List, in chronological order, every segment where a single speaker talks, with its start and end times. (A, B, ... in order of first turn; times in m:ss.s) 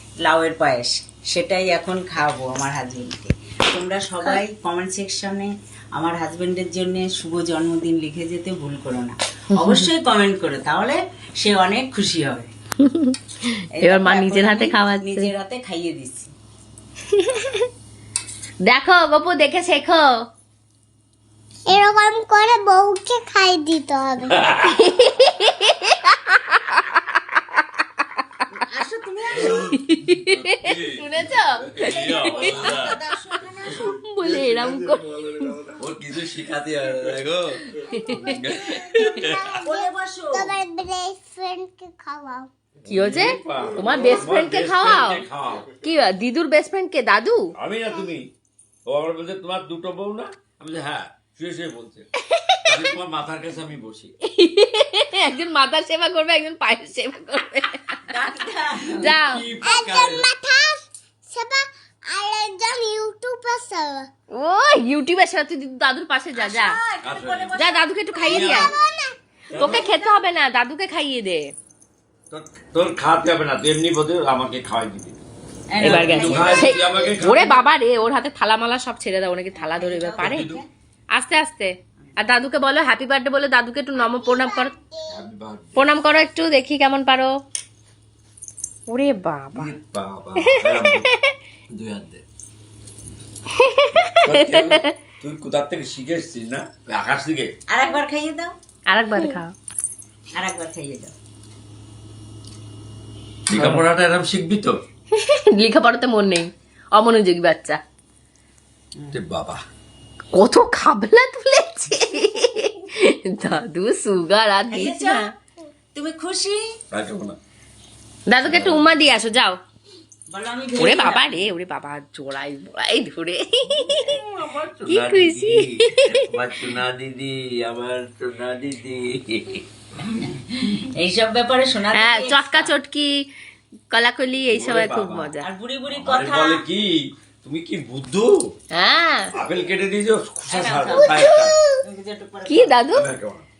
0:00.2-0:12.5 A
0:09.6-0:09.8 B
0:12.8-0:15.3 B
0:13.7-0:16.3 A
0:17.1-0:17.7 B
0:18.6-0:20.1 B
0:21.7-0:24.5 C
0:24.3-0:24.8 D
0:24.6-0:27.6 B
0:28.6-0:29.7 A
0:29.4-0:33.0 D
0:29.7-0:32.7 B
0:31.8-0:33.9 A
0:33.8-0:35.7 B
0:35.7-0:39.6 D
0:37.7-0:38.4 B
0:37.9-0:42.5 C
0:39.6-0:40.6 A
0:42.8-0:45.8 D
0:42.9-0:45.2 B
0:45.8-0:47.5 B
0:47.6-0:48.3 D
0:48.9-0:52.1 D
0:52.3-0:52.9 B
0:52.7-0:54.1 D
0:54.2-0:58.1 B
0:58.0-0:59.2 A
0:58.9-1:00.3 D
0:59.0-0:59.5 B
0:59.6-1:04.1 C
1:04.3-1:06.8 B
1:06.4-1:08.5 A
1:07.0-1:07.7 D
1:07.6-1:08.7 B
1:08.2-1:10.1 C
1:08.2-1:08.7 D
1:09.5-1:09.9 D
1:09.5-1:09.8 A
1:09.6-1:11.5 B
1:12.3-1:15.2 D
1:15.7-1:17.2 A
1:15.8-1:17.6 D
1:15.8-1:20.5 B
1:19.5-1:20.6 A
1:20.2-1:20.6 D
1:21.1-1:24.7 B
1:24.0-1:25.3 C
1:25.1-1:25.9 D
1:25.8-1:27.3 B
1:28.9-1:29.8 B
1:29.5-1:31.1 D
1:30.4-1:31.3 B
1:31.7-1:32.2 D
1:33.5-1:34.9 B
1:34.2-1:37.5 D
1:37.7-1:38.5 A
1:38.9-1:39.5 B
1:40.3-1:41.2 A
1:43.5-1:44.7 D
1:45.1-1:47.8 B
1:49.1-1:49.6 D
1:50.3-1:55.3 B
1:54.7-1:55.3 A
1:55.9-1:56.6 A
1:56.9-1:57.4 D
1:58.3-1:59.6 B
1:58.4-1:59.0 D
2:00.3-2:01.4 A
2:00.8-2:04.2 B
2:03.7-2:09.6 D
2:04.9-2:06.3 B
2:10.1-2:12.7 A
2:11.9-2:13.2 B
2:13.9-2:15.5 B
2:14.5-2:15.3 D
2:15.4-2:16.6 A
2:15.9-2:18.5 D
2:18.7-2:19.4 B
2:19.3-2:21.6 D
2:20.5-2:21.3 A
2:21.0-2:21.8 B
2:21.8-2:22.8 A
2:22.5-2:23.1 B
2:22.9-2:23.5 D